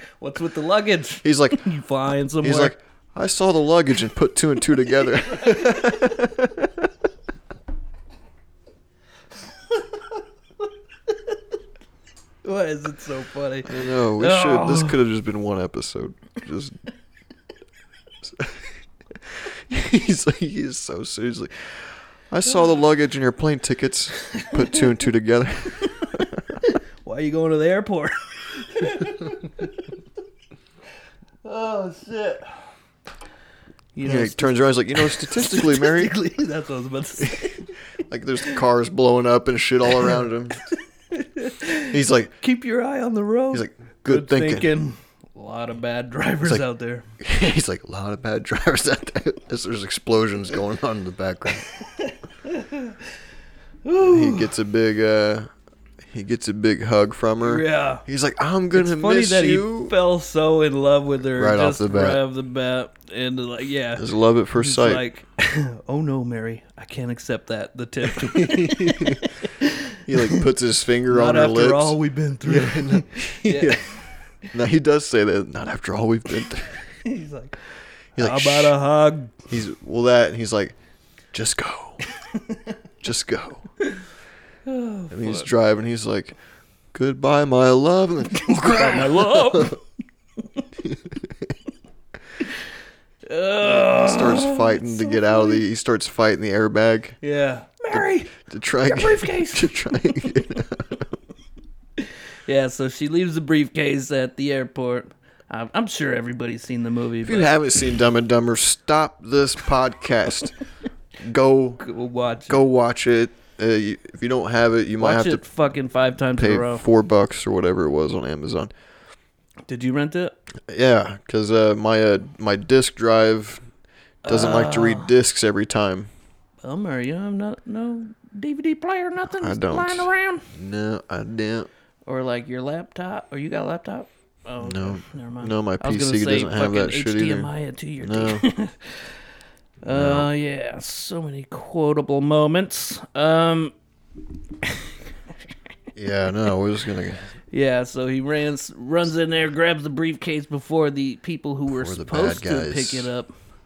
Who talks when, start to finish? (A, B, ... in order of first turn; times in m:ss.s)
0:00.2-0:02.8 A
0:01.2-0:01.7 B
0:02.4-0:06.9 B
0:12.4-0:15.0 A
0:13.7-0:16.8 B
0:18.2-0:18.7 B
0:19.4-0:26.6 B
0:24.3-0:24.8 A
0:26.6-0:29.9 A
0:31.4-0:32.5 A
0:34.0-0:37.6 A
0:34.0-0:36.2 B
0:37.2-0:37.5 B
0:38.1-0:40.6 B
0:41.1-0:47.1 A
0:41.9-0:42.4 B
0:43.5-0:44.7 B
0:47.2-0:51.7 B
0:51.8-0:53.0 A
0:53.8-0:54.5 A
0:54.0-0:55.5 B
0:56.1-1:00.0 B
0:57.4-0:58.0 A
0:58.7-1:10.4 A
1:01.4-1:02.2 B
1:04.0-1:05.0 B
1:08.1-1:09.3 B
1:10.1-1:13.9 B
1:11.1-1:13.9 A
1:14.5-1:17.0 B
1:17.0-1:17.6 A
1:18.2-1:18.8 B
1:18.2-1:19.3 A
1:19.5-1:20.8 B
1:21.3-1:22.0 B
1:23.0-1:23.7 B
1:24.7-1:25.5 A
1:25.1-1:26.4 B
1:26.9-1:29.8 B
1:28.4-1:29.8 A
1:30.8-1:31.5 B
1:33.3-1:35.7 A
1:33.6-1:37.2 B
1:37.2-1:38.3 A
1:37.9-1:41.1 B
1:38.8-1:39.8 A
1:42.0-1:47.5 A
1:47.2-1:50.5 B
1:51.2-1:51.8 B
1:51.8-1:52.6 A
1:52.5-1:55.4 B
1:55.0-1:56.8 A
1:56.4-1:58.7 B
1:59.7-2:00.4 A
2:00.7-2:03.7 B
2:04.2-2:05.1 A
2:04.2-2:06.1 B
2:06.6-2:10.5 A
2:09.3-2:11.7 B
2:12.1-2:19.1 A
2:14.6-2:18.5 B
2:19.8-2:23.7 A
2:19.9-2:20.3 B
2:26.0-2:27.3 B
2:27.5-2:33.3 A
2:31.7-2:33.1 B